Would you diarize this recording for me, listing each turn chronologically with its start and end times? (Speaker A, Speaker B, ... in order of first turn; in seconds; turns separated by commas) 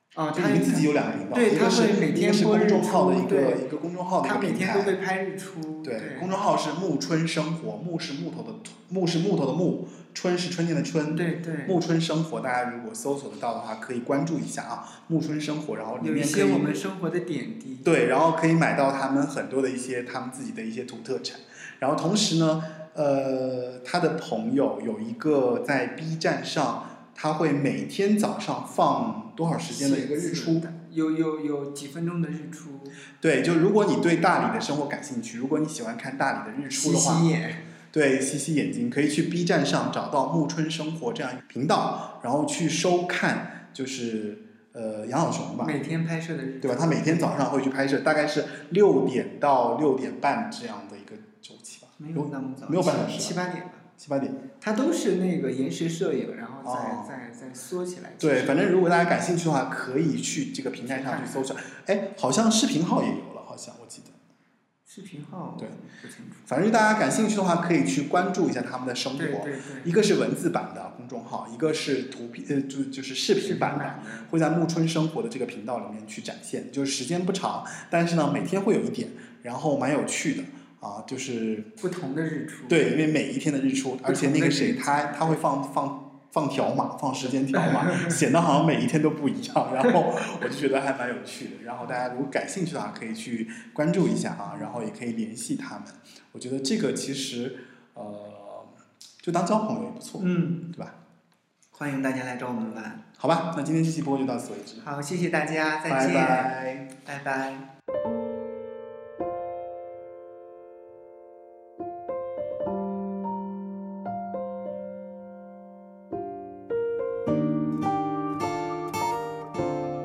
Speaker A: 0.1-3.6, Speaker B: 0.3-5.0, Speaker A: 4.2-6.3, Speaker B: 5.8-16.8, Speaker A: 11.1-11.8, Speaker A: 16.0-17.9, Speaker B: 17.8-30.7, Speaker A: 29.7-33.0, Speaker B: 33.2-37.3, Speaker A: 36.7-37.6, Speaker B: 37.9-45.8, Speaker A: 45.6-47.4, Speaker B: 46.6-53.4, Speaker A: 52.0-53.9, Speaker B: 54.0-54.5, Speaker A: 54.6-58.8, Speaker B: 56.6-57.1, Speaker B: 58.2-64.2, Speaker A: 60.9-61.5, Speaker A: 64.9-66.5, Speaker B: 66.5-81.7, Speaker A: 69.2-69.9, Speaker A: 73.4-74.3, Speaker A: 81.8-82.8, Speaker B: 82.7-101.0, Speaker A: 84.1-85.4, Speaker A: 87.5-88.2, Speaker A: 94.5-94.8, Speaker A: 100.2-100.7, Speaker A: 101.7-103.0, Speaker B: 103.2-104.8, Speaker A: 104.8-107.7, Speaker B: 105.9-106.9